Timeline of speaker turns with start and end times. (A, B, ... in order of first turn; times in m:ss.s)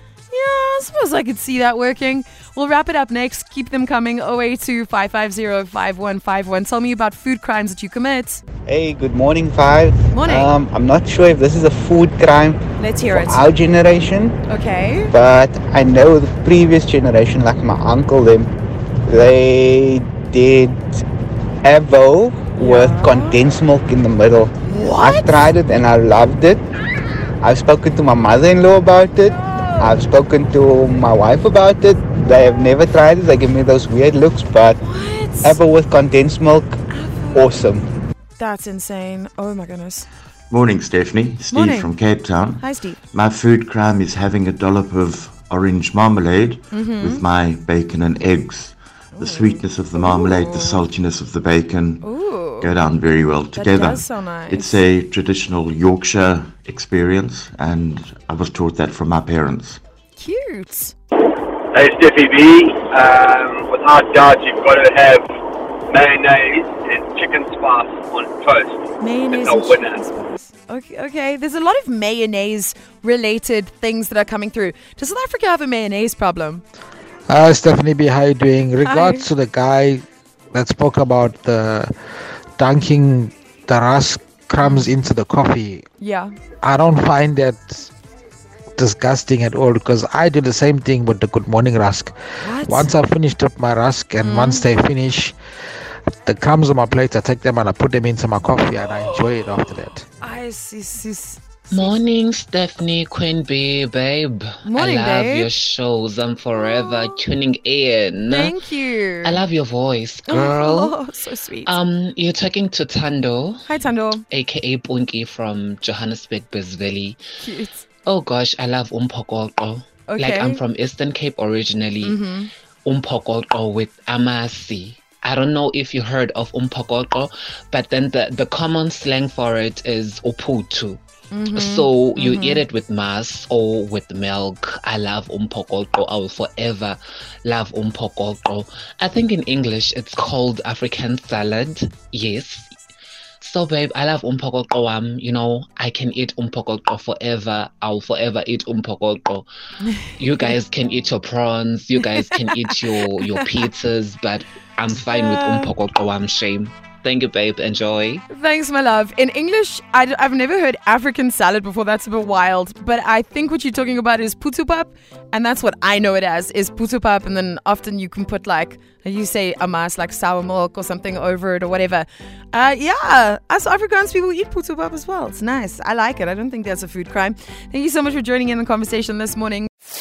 0:00.3-0:08.4 A
0:08.7-0:14.4 B
0:10.1-0:10.6 A
0:12.8-0:13.5 A
0:14.5-0:15.1 A
0:15.1-0:18.5 B
0:19.1-0:21.0 B
0:21.6-0:26.6 B
0:22.6-0:23.4 A
0:24.6-0:25.5 A
0:27.4-0:34.8 B
0:29.5-0:29.9 A
0:34.8-0:35.6 A
0:35.4-0:36.8 B
0:36.9-0:37.5 A
0:37.3-0:37.9 B
0:38.4-0:40.1 A
0:40.5-0:59.8 C
0:41.5-0:41.9 A
0:42.6-0:43.0 A
0:46.7-0:47.2 A
0:49.2-0:50.9 A
0:52.0-0:52.7 A
0:53.5-0:54.8 A
1:00.2-1:00.9 A
1:01.8-1:05.2 D
1:05.9-1:08.7 D
1:09.0-1:16.6 A
1:09.3-1:10.0 D
1:17.3-1:21.9 E
1:18.8-1:19.3 A
1:22.6-1:25.8 E
1:24.6-1:25.0 A
1:26.0-1:26.4 A
1:26.6-1:27.9 E
1:28.8-1:35.4 E
1:32.4-1:32.9 A
1:34.2-1:34.7 A
1:36.2-1:40.1 E
1:40.2-1:42.0 A
1:41.7-1:48.6 F
1:44.6-1:45.5 A
1:48.3-1:49.4 A
1:49.2-1:51.0 F
1:50.3-1:51.8 A
1:51.7-1:53.6 F
1:53.7-1:54.2 A
1:54.3-1:57.2 F
1:57.4-1:57.8 A
1:58.1-2:02.2 F
2:00.1-2:00.6 A
2:02.0-2:02.5 A
2:02.8-2:11.0 F
2:11.3-2:12.6 A
2:11.5-2:22.7 F
2:23.4-2:29.5 F
2:30.2-2:38.2 F
2:32.2-2:32.5 A
2:35.1-2:35.7 A
2:38.3-2:59.7 A